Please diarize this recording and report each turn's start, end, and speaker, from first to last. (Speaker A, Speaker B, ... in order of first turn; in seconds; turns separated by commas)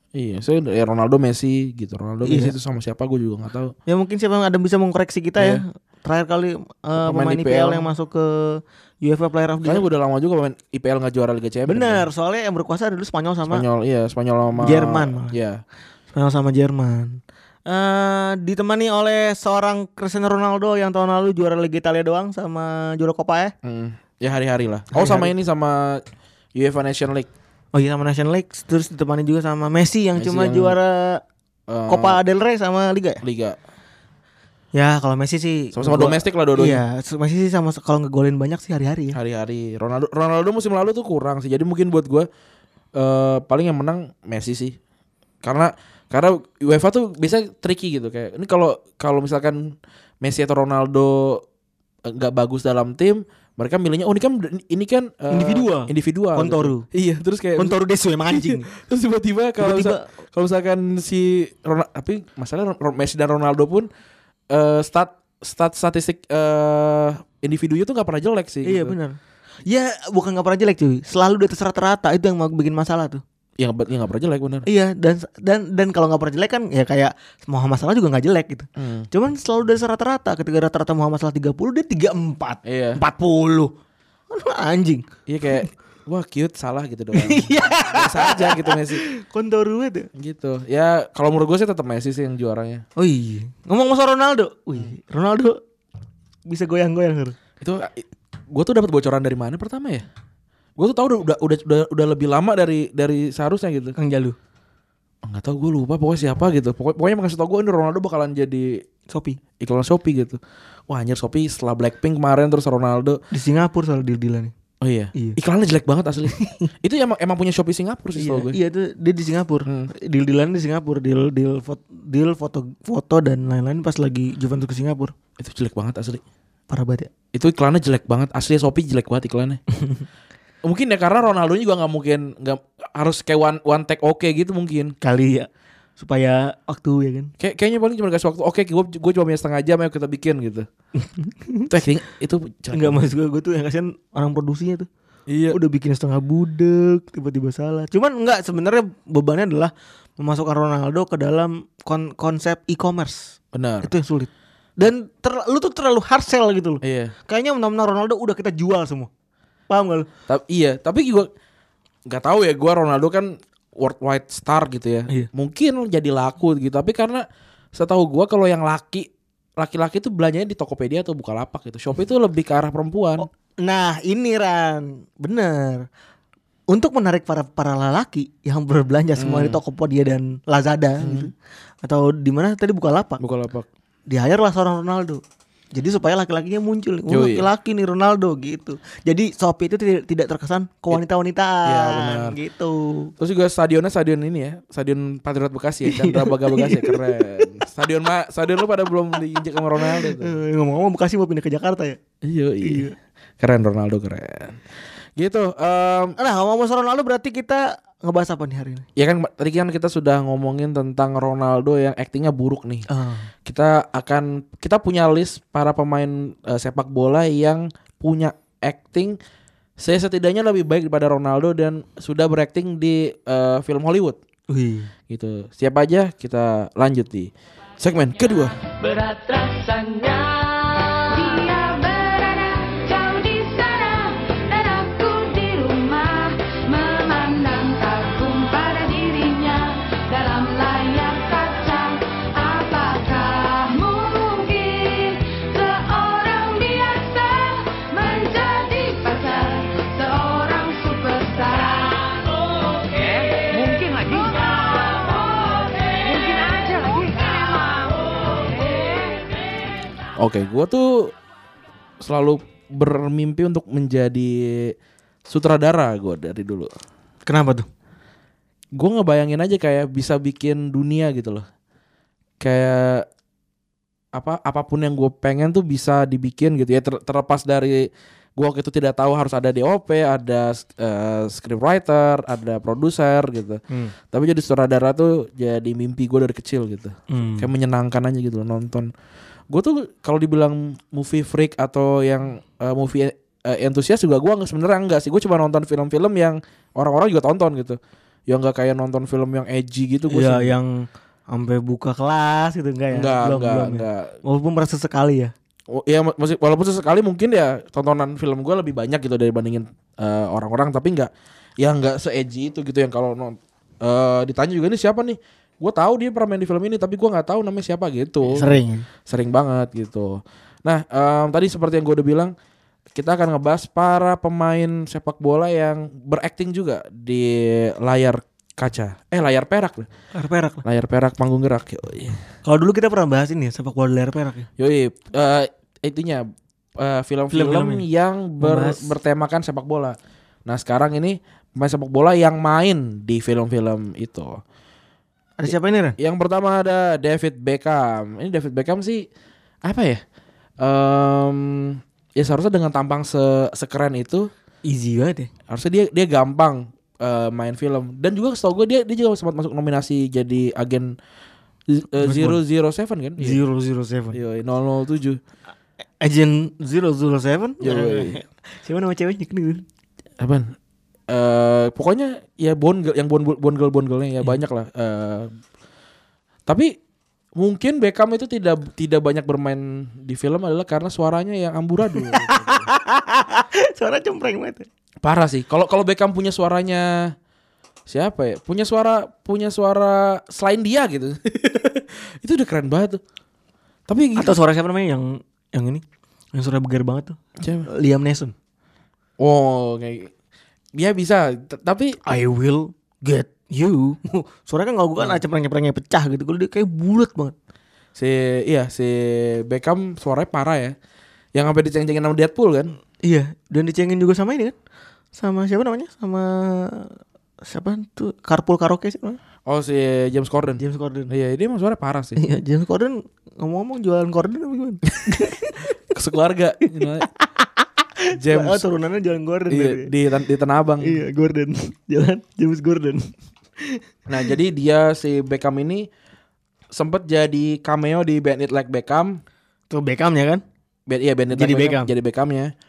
Speaker A: 0.1-3.7, Speaker B: 2.2-2.5, Speaker B: 3.9-9.8, Speaker A: 7.0-7.9, Speaker A: 9.6-12.0, Speaker B: 11.7-13.6, Speaker A: 13.5-15.6, Speaker B: 14.6-15.3, Speaker B: 16.1-23.5, Speaker A: 23.6-26.0, Speaker B: 24.9-25.3, Speaker A: 26.5-27.3, Speaker B: 27.7-31.2, Speaker A: 30.2-30.8, Speaker A: 31.7-32.2, Speaker B: 31.9-33.2, Speaker A: 33.2-33.6, Speaker B: 34.7-39.2, Speaker A: 35.7-36.8, Speaker A: 39.1-42.3, Speaker A: 42.9-44.8, Speaker A: 45.4-51.4, Speaker A: 52.0-57.8, Speaker B: 55.3-56.8, Speaker B: 57.6-58.7, Speaker A: 58.3-63.9, Speaker B: 59.6-60.0, Speaker A: 64.5-69.0, Speaker B: 68.6-73.2, Speaker A: 73.6-74.7, Speaker B: 74.7-83.7, Speaker A: 78.8-79.1, Speaker A: 82.6-83.0, Speaker B: 84.3-85.1, Speaker A: 85.3-89.0, Speaker B: 87.1-90.1, Speaker A: 90.2-92.8, Speaker B: 93.0-95.6, Speaker B: 96.5-97.3, Speaker A: 97.6-100.0, Speaker A: 100.8-103.9, Speaker B: 104.0-104.3, Speaker A: 105.2-108.8, Speaker B: 109.1-109.4, Speaker A: 109.6-113.2, Speaker B: 113.3-114.5, Speaker A: 114.8-118.6, Speaker B: 116.3-116.7, Speaker B: 118.2-125.1, Speaker A: 119.7-119.9, Speaker A: 125.4-126.2, Speaker B: 126.7-127.1, Speaker A: 127.3-129.6, Speaker A: 130.6-134.9, Speaker B: 135.0-137.3, Speaker A: 137.4-140.7, Speaker B: 141.0-141.7, Speaker A: 141.7-143.0, Speaker B: 142.7-144.9, Speaker A: 145.3-145.6, Speaker B: 145.5-159.1, Speaker A: 153.5-153.9, Speaker A: 156.8-157.1, Speaker B: 159.7-160.1, Speaker A: 160.3-161.3, Speaker A: 162.1-167.2, Speaker A: 167.7-173.2, Speaker B: 173.2-175.9, Speaker B: 176.7-181.3, Speaker A: 179.2-179.6, Speaker A: 181.0-181.3, Speaker B: 181.8-183.2, Speaker A: 183.2-183.7, Speaker B: 184.1-185.2, Speaker B: 185.7-193.1, Speaker A: 187.1-187.5, Speaker A: 191.6-192.3, Speaker A: 193.2-200.3, Speaker B: 195.9-197.5, Speaker B: 199.8-202.0, Speaker A: 202.2-202.9, Speaker B: 202.6-202.9, Speaker A: 203.4-204.6, Speaker A: 205.2-206.2, Speaker B: 206.2-208.8, Speaker A: 208.9-212.9, Speaker B: 212.9-213.3, Speaker A: 213.4-219.2, Speaker A: 219.8-224.2, Speaker B: 224.5-224.9, Speaker A: 225.1-228.6, Speaker C: 228.8-252.4, Speaker C: 252.9-257.3, Speaker A: 260.2-261.1, Speaker A: 262.0-264.7, Speaker A: 265.3-266.7, Speaker B: 267.2-267.7, Speaker A: 268.8-271.4, Speaker A: 272.4-273.1, Speaker A: 274.1-288.9, Speaker B: 287.1-287.5, Speaker A: 289.5-300.5, Speaker B: 300.1-305.3, Speaker A: 302.9-304.1, Speaker A: 305.7-318.6, Speaker B: 318.2-318.9, Speaker A: 319.1-322.3, Speaker A: 322.9-329.9, Speaker B: 330.1-330.6, Speaker A: 330.6-332.2, Speaker B: 332.4-334.5, Speaker A: 334.6-344.4, Speaker B: 337.3-337.8, Speaker B: 338.4-338.9, Speaker B: 345.4-346.0, Speaker A: 345.4-349.1, Speaker A: 349.6-350.0, Speaker A: 350.6-354.3, Speaker B: 354.6-355.3, Speaker A: 355.5-360.9, Speaker A: 361.7-363.4, Speaker B: 362.0-362.4, Speaker B: 363.2-364.2, Speaker A: 364.1-365.2, Speaker B: 366.0-369.6, Speaker A: 367.6-368.1, Speaker A: 370.2-370.5, Speaker A: 371.1-375.3, Speaker A: 376.5-376.7, Speaker A: 377.4-382.7, Speaker B: 381.9-384.7, Speaker A: 385.0-387.1, Speaker A: 387.9-393.0, Speaker A: 393.9-394.4, Speaker B: 394.2-395.8, Speaker B: 396.3-398.3, Speaker A: 397.4-397.6, Speaker A: 399.2-400.1, Speaker A: 400.8-402.0, Speaker B: 402.0-407.3, Speaker A: 407.9-410.7, Speaker A: 411.3-412.7, Speaker B: 413.0-414.6, Speaker B: 415.1-419.2, Speaker A: 419.4-422.2, Speaker B: 420.6-421.1, Speaker B: 422.2-425.7, Speaker A: 425.0-425.3, Speaker A: 425.9-427.1, Speaker B: 428.1-429.9, Speaker A: 428.1-428.6, Speaker A: 429.5-431.0, Speaker B: 430.8-433.8, Speaker A: 434.1-435.9, Speaker A: 436.7-439.2, Speaker B: 439.7-440.4, Speaker A: 440.9-442.5, Speaker B: 441.3-441.9